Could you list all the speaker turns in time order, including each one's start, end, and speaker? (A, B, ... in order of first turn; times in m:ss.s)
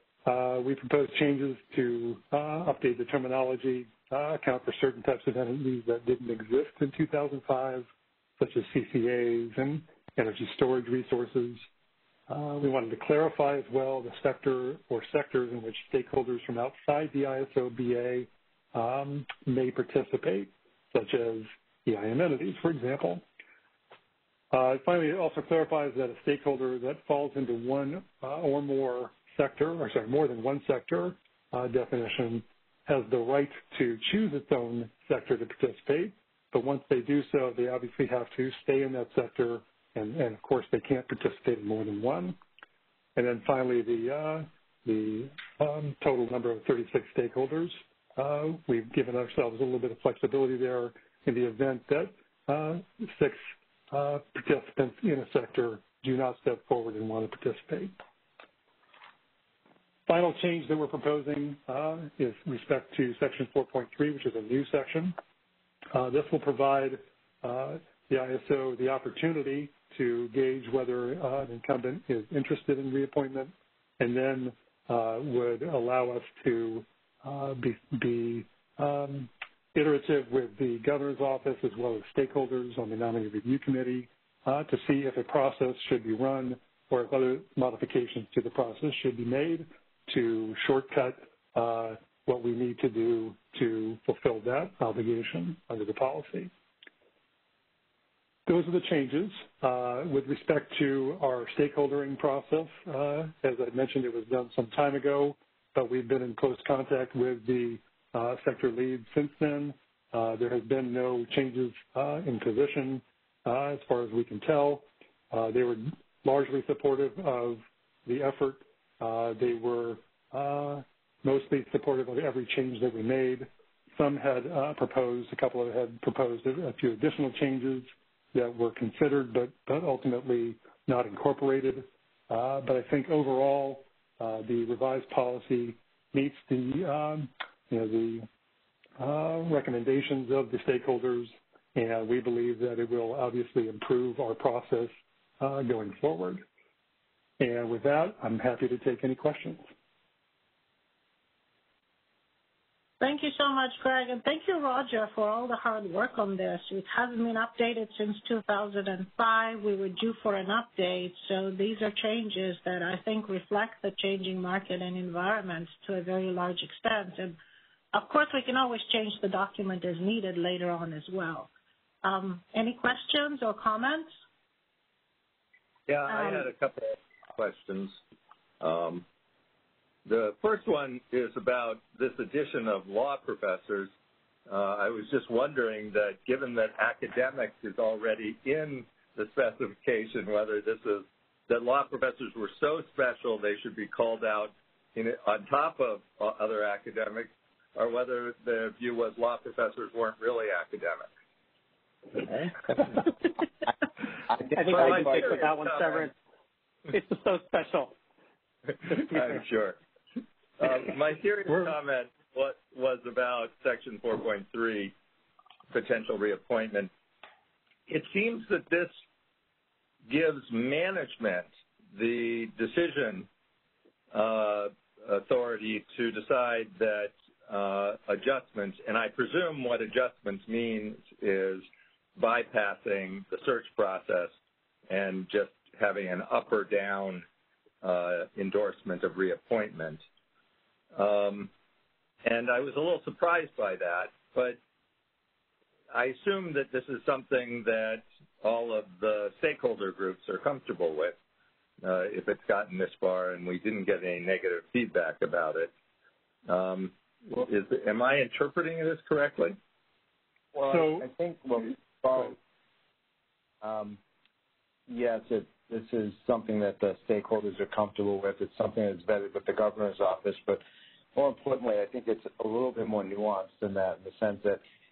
0:00.2-0:07.9 A
0:08.4-0:11.6 A
0:12.3-0:23.2 A
0:24.5-0:42.4 A
0:43.2-0:58.0 A
1:00.1-1:05.2 A
1:05.9-1:36.5 A
1:38.4-2:18.3 A
2:19.0-2:26.4 A
2:27.4-2:29.7 A
2:33.0-2:47.4 B
2:47.9-2:51.5 B
2:52.0-2:54.1 B
2:55.9-2:58.0 C
2:56.1-2:56.5 B
2:58.6-2:59.0 C
3:00.0-3:03.9 C
3:04.5-3:21.1 C
3:24.3-3:25.4 D
3:24.5-3:26.1 E
3:24.6-3:26.1 C
3:26.9-3:27.9 E
3:28.8-3:29.8 C
3:30.6-3:34.9 C
3:35.7-3:36.9 C
3:37.9-3:38.9 C
3:40.1-3:43.3 C
3:44.1-3:51.6 C
3:52.2-3:54.3 C
3:54.9-3:57.2 C
3:57.8-4:00.0 C
4:00.9-4:01.5 C
4:02.2-4:04.6 C
4:05.9-4:11.2 C
4:11.8-4:15.7 C
4:16.5-4:19.6 C
4:20.6-4:22.4 D
4:20.7-4:21.1 A
4:23.6-4:24.0 D
4:24.9-4:30.6 D
4:31.1-4:34.6 D